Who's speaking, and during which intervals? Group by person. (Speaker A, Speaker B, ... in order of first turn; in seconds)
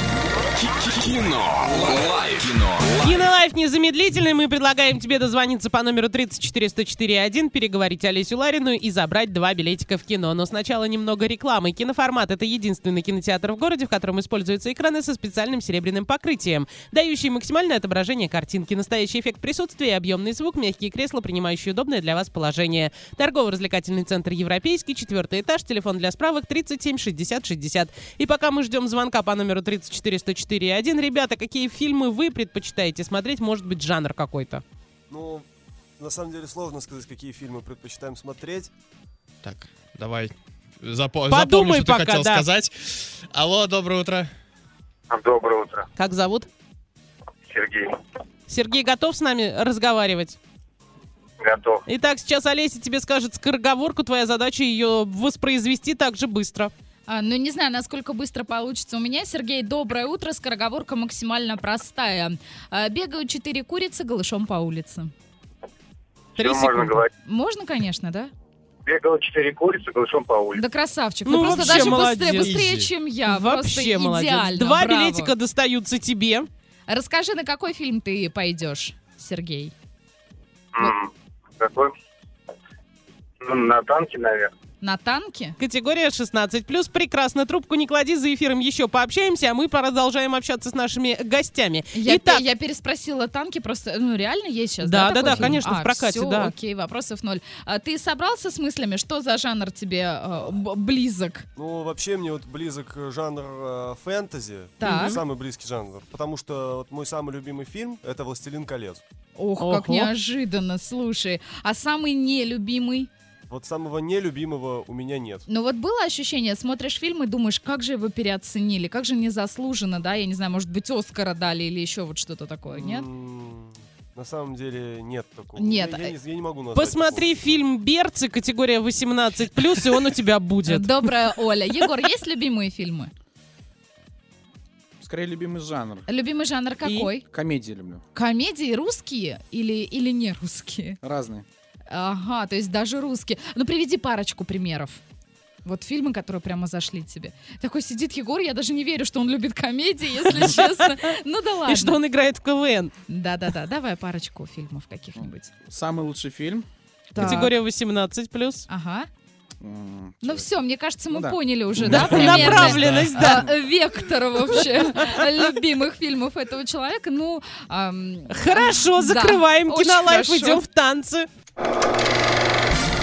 Speaker A: 0.6-3.0
Speaker B: 3.0-34.6, 41.3-42.5, 46.0-46.5, 48.5-50.4, 51.9-56.7, 66.4-67.0, 71.2-72.6, 73.2-76.5, 85.6-92.4, 94.8-96.5, 104.8-105.2, 109.6-110.1, 126.7-131.1, 136.8-137.1, 150.2-150.7, 151.7-152.9, 157.1-158.7, 161.8-163.5, 168.3-171.3
Speaker C: 35.1-35.5, 36.0-38.7, 101.5-109.0, 113.5-115.5, 122.7-127.6
Speaker D: 39.4-44.3, 71.3-72.9, 161.9-163.2
Speaker E: 45.1-45.9, 47.5-47.9, 51.4-51.8, 66.3-67.1, 68.8-70.6, 80.8-81.9, 83.4-84.5
Speaker F: 57.1-65.1, 67.2-68.3, 70.5-75.3, 76.9-79.7, 84.8-85.6, 91.9-101.5, 104.8-105.2, 109.3-113.1, 115.5-123.1, 125.5-126.2, 130.7-133.1, 136.1-137.2, 138.1-141.0, 141.9-145.0, 145.6-152.0, 153.1-155.5, 157.1-157.5, 158.7-159.1, 160.2-170.6
Speaker G: 95.3-95.6, 135.0-136.1, 137.2-138.0, 141.0-141.5, 155.2-156.7, 157.2-157.5, 159.6-160.5, 161.1-162.7